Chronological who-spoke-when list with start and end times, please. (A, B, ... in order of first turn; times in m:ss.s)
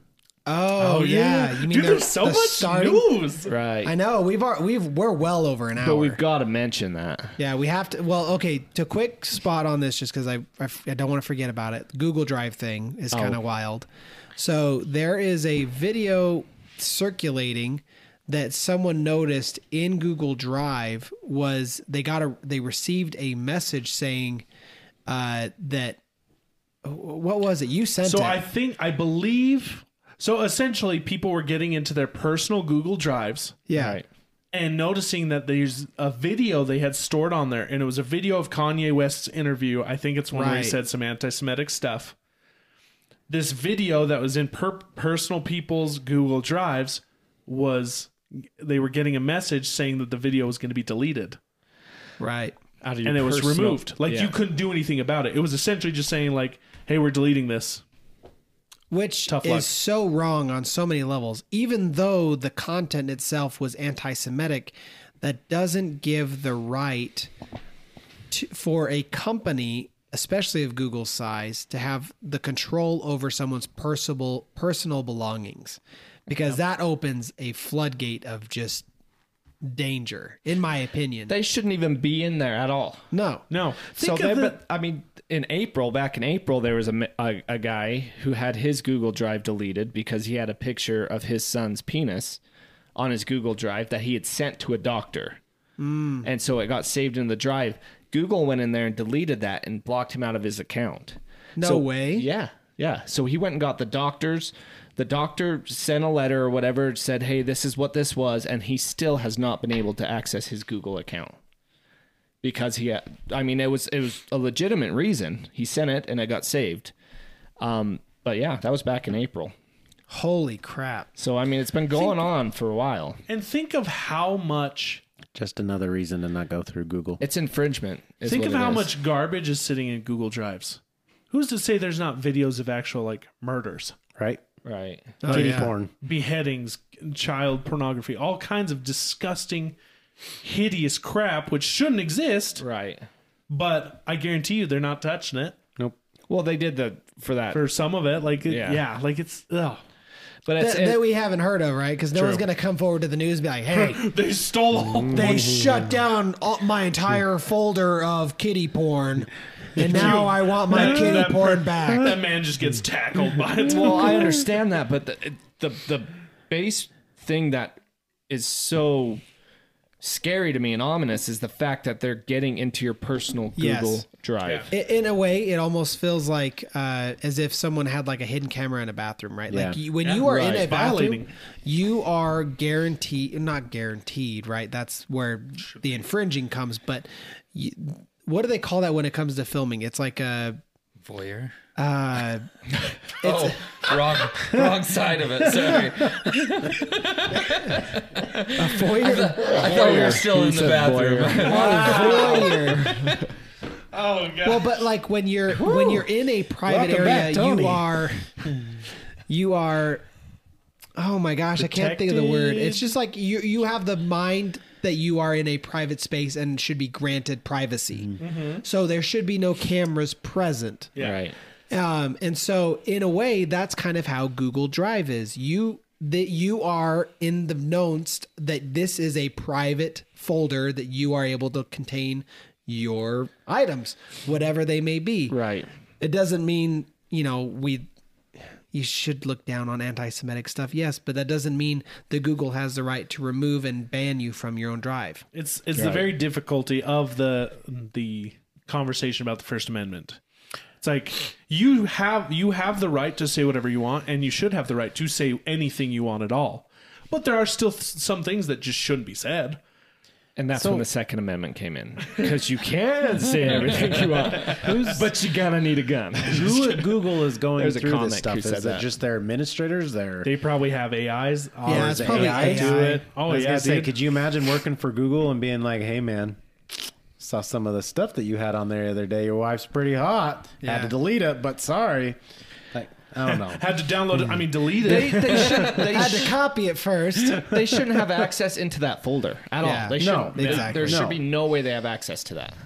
0:00.5-0:03.2 A
0:00.8-0:03.5 B
0:03.5-0:04.0 C
0:03.8-0:06.2 A
0:05.8-0:07.4 C
0:07.4-0:24.4 A
0:13.1-0:13.4 C
0:25.1-0:26.0 A
0:26.8-0:28.4 A
0:28.0-0:33.6 B
0:33.7-0:34.0 A
0:33.7-0:34.1 C
0:34.5-0:42.2 B
0:40.3-0:40.8 A
0:43.3-0:51.4 B
0:52.2-0:52.6 A
0:52.8-0:54.4 C
0:53.0-0:57.8 B
0:58.9-1:07.3 A
0:59.3-0:59.7 B
1:08.3-1:18.9 A
1:19.6-1:21.3 A
1:21.3-1:23.1 C
1:23.1-1:23.4 A
1:23.5-1:24.6 B
1:24.0-1:32.4 C
1:33.0-1:35.4 C
1:35.8-1:36.3 A
1:36.2-1:51.4 C
1:41.6-1:42.3 A
1:52.4-1:56.9 C
1:57.6-1:59.5 C
2:00.1-2:01.1 A
2:01.2-2:03.2 C
2:03.3-2:05.0 B
2:05.4-2:07.2 D
2:07.2-2:08.9 C
2:08.2-2:10.8 B
2:11.3-2:14.0 B
2:14.2-2:14.4 D
2:14.6-2:15.2 C
2:15.2-2:15.7 A
2:15.3-2:15.9 D
2:15.3-2:19.8 B
2:20.4-2:22.6 B
2:22.6-2:23.1 C
2:23.5-2:25.6 B
2:26.3-2:27.7 C
2:27.5-2:29.8 B
2:28.5-2:28.8 C
2:30.5-2:31.0 C
2:30.6-2:34.1 A
2:32.2-2:32.4 C
2:33.7-2:35.6 B
2:34.8-2:36.0 D
2:35.1-2:42.2 A
2:39.8-2:44.4 B
2:43.6-2:49.2 C
2:50.0-2:54.7 C
2:53.6-2:54.0 A
2:54.7-3:10.6 A
2:59.5-2:59.8 D
3:00.0-3:01.3 B
3:11.0-3:11.5 E
3:11.8-3:12.5 A
3:13.2-3:14.4 A
3:13.2-3:23.2 E
3:18.6-3:20.2 A
3:19.4-3:21.7 C
3:21.4-3:22.7 B
3:21.4-3:23.0 A
3:22.7-3:23.3 C
3:23.9-3:24.9 B
3:24.4-3:28.3 A
3:25.5-3:26.1 D
3:26.6-3:28.1 D
3:29.3-3:30.0 A
3:31.0-3:40.9 A
3:31.6-3:32.9 B
3:38.2-3:38.6 B
3:41.0-3:41.2 B
3:41.0-3:41.4 C
3:41.7-3:55.4 A
3:55.3-3:55.7 C
3:56.0-3:57.9 A
3:58.7-4:05.2 A
4:05.3-4:10.2 B
4:05.8-4:06.2 C
4:10.8-4:19.6 B
4:20.4-4:26.8 C
4:20.5-4:20.9 D
4:23.7-4:24.8 B
4:24.6-4:25.1 D
4:26.2-4:30.3 D
4:27.6-4:28.9 C
4:30.2-4:33.9 B
4:31.6-4:33.0 A
4:31.6-4:36.4 D
4:37.2-4:42.2 D
4:40.6-4:40.9 A
4:42.7-4:44.4 D
4:43.3-4:45.8 B
4:44.8-4:46.4 C
4:45.5-4:46.1 E
4:45.8-4:47.6 A
4:47.4-4:52.6 C
4:49.6-4:51.1 A
4:49.9-4:51.2 D